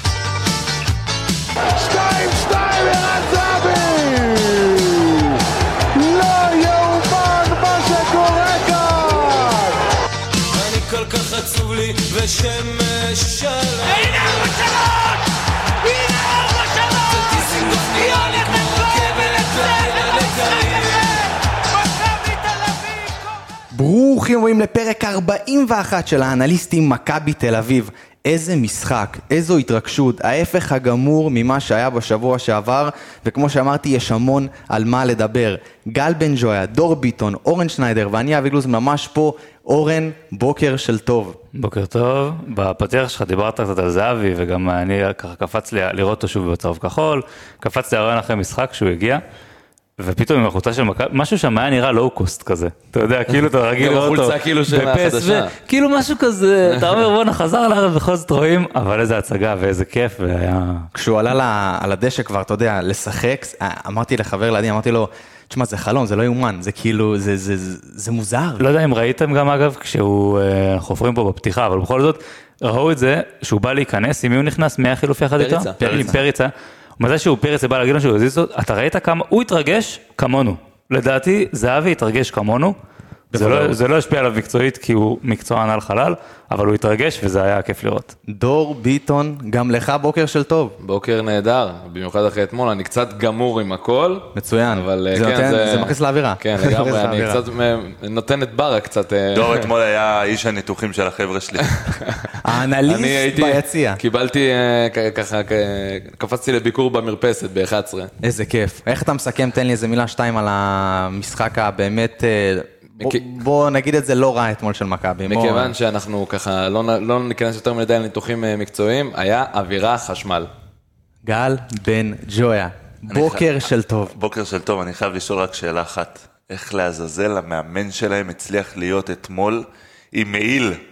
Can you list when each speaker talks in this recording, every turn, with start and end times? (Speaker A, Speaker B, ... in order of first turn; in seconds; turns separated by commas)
Speaker A: 1.9-5.1, Speaker B: 2.0-4.5, Speaker A: 6.1-9.7, Speaker B: 6.3-9.3, Speaker A: 10.6-15.1, Speaker A: 15.9-21.3, Speaker A: 21.8-23.1, Speaker B: 23.7-41.4, Speaker C: 41.5-49.2, Speaker C: 50.0-60.9, Speaker D: 53.8-55.5, Speaker D: 56.6-57.1, Speaker B: 60.9-68.6, Speaker C: 68.6-82.8, Speaker D: 75.4-75.8, Speaker B: 75.8-76.2, Speaker B: 83.3-83.8, Speaker C: 83.3-88.1, Speaker B: 88.3-90.8, Speaker D: 90.8-99.7, Speaker B: 94.3-97.4, Speaker E: 99.3-101.7, Speaker D: 101.8-102.3, Speaker B: 102.4-104.0, Speaker D: 102.9-108.1, Speaker B: 108.2-115.8, Speaker D: 115.3-120.5, Speaker B: 121.2-124.2, Speaker D: 123.1-123.5, Speaker E: 124.1-130.8